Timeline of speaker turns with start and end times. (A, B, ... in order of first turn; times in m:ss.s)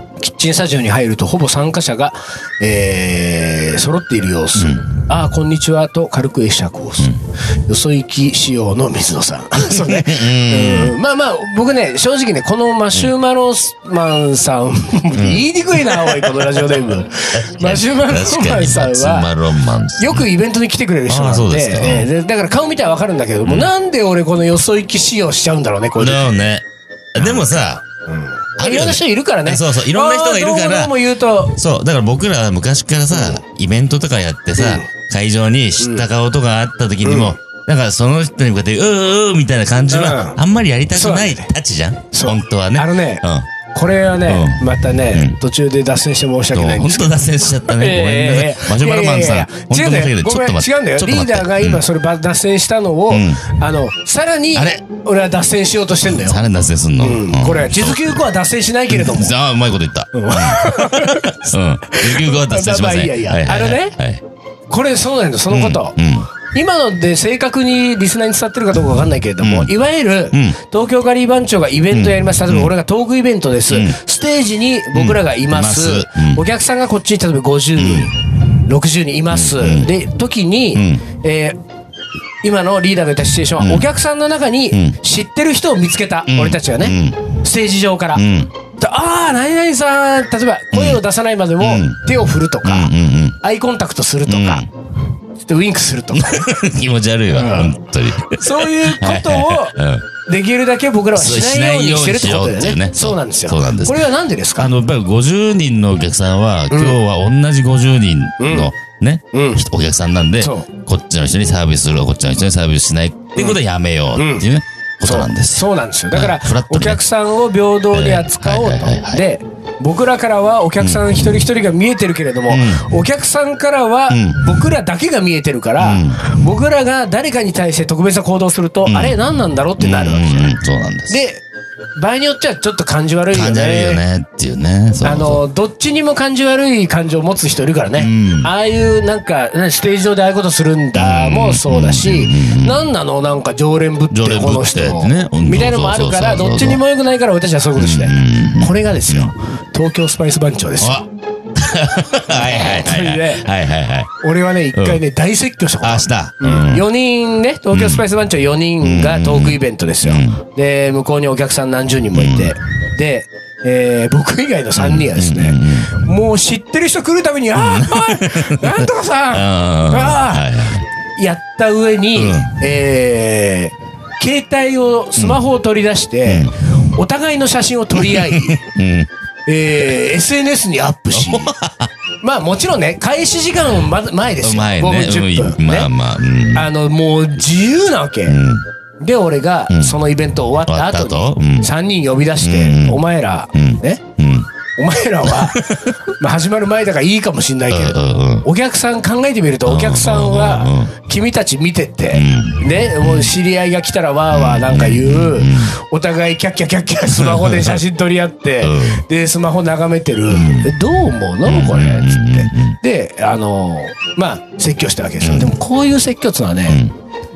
0:00.2-0:19.3 A
0:04.6-0:04.9 B
0:09.7-0:11.0 B
0:15.1-0:16.5 B
0:17.3-0:20.3 B
0:20.0-0:26.4 A
0:21.1-0:22.1 B
0:23.4-0:23.7 B
0:26.0-0:27.8 B
0:27.2-0:31.6 A
0:28.6-0:43.5 B
0:33.1-0:33.4 A
0:34.6-0:34.9 A
0:35.8-0:36.0 A
0:37.0-0:37.3 A
0:39.9-0:40.4 A
0:40.9-0:41.5 A
0:42.1-0:56.4 A
0:44.3-0:45.4 B
0:46.5-0:51.8 B
0:53.1-0:53.6 B
0:54.5-0:54.8 B
0:56.1-0:58.2 B
0:57.0-0:59.3 A
0:58.9-1:04.2 B
1:00.1-1:04.0 A
1:04.7-1:06.0 A
1:05.5-1:06.3 B
1:06.5-1:21.6 A
1:09.4-1:09.7 B
1:10.3-1:10.6 B
1:11.9-1:12.7 B
1:13.7-1:14.0 B
1:14.9-1:16.4 B
1:17.8-1:18.1 B
1:19.3-1:19.9 B
1:20.7-1:21.0 B
1:22.4-1:28.2 A
1:23.6-1:23.9 B
1:26.3-1:27.4 B
1:28.1-1:28.5 B
1:28.8-1:34.6 A
1:30.7-1:31.0 B
1:31.6-1:32.1 B
1:32.6-1:33.4 B
1:34.3-1:34.7 B
1:35.4-1:36.5 A
1:36.1-1:40.0 B
1:37.3-1:44.7 A
1:41.1-1:57.0 B
1:46.7-1:47.0 A
1:48.4-1:48.7 A
1:49.3-1:49.6 A
1:50.4-1:50.7 A
1:54.1-1:54.4 A
1:55.0-2:10.5 A
1:57.9-1:59.2 B
2:00.8-2:01.3 B
2:02.5-2:02.9 B
2:04.1-2:04.6 B
2:05.8-2:06.3 B
2:08.8-2:09.2 B
2:09.8-2:11.2 B
2:11.1-2:11.4 A
2:12.0-2:14.0 A
2:13.3-2:15.4 B
2:15.0-2:31.0 A
2:18.0-2:18.5 B
2:20.9-2:22.9 B
2:24.1-2:26.8 B
2:27.8-2:29.3 B
2:30.8-2:31.0 B
2:31.5-2:34.1 B
2:32.3-2:33.5 A
2:34.2-2:50.5 A
2:34.7-2:35.0 B
2:35.8-2:36.9 B
2:37.7-2:38.0 B
2:38.8-2:40.4 B
2:42.1-2:42.5 B
2:44.8-2:46.0 B
2:47.5-2:50.8 B
2:51.2-2:58.6 A
2:52.2-2:52.6 B
2:56.2-2:56.5 B
2:57.9-2:59.1 B
2:59.4-3:01.5 A
3:01.1-3:01.9 B
3:02.2-3:05.9 A
3:04.4-3:06.7 B
3:06.5-3:08.4 A
3:08.3-3:08.6 B
3:09.0-3:14.0 A
3:09.7-3:10.0 B
3:10.7-3:11.7 B
3:12.4-3:13.0 B
3:13.5-3:14.5 B
3:14.8-3:36.8 A
3:15.2-3:16.0 B
3:17.7-3:18.5 B
3:19.6-3:20.9 B
3:22.1-3:23.3 B
3:24.3-3:25.8 B
3:27.1-3:27.8 B
3:28.6-3:29.0 B
3:30.3-3:30.7 B
3:31.4-3:32.8 B
3:35.2-3:35.5 B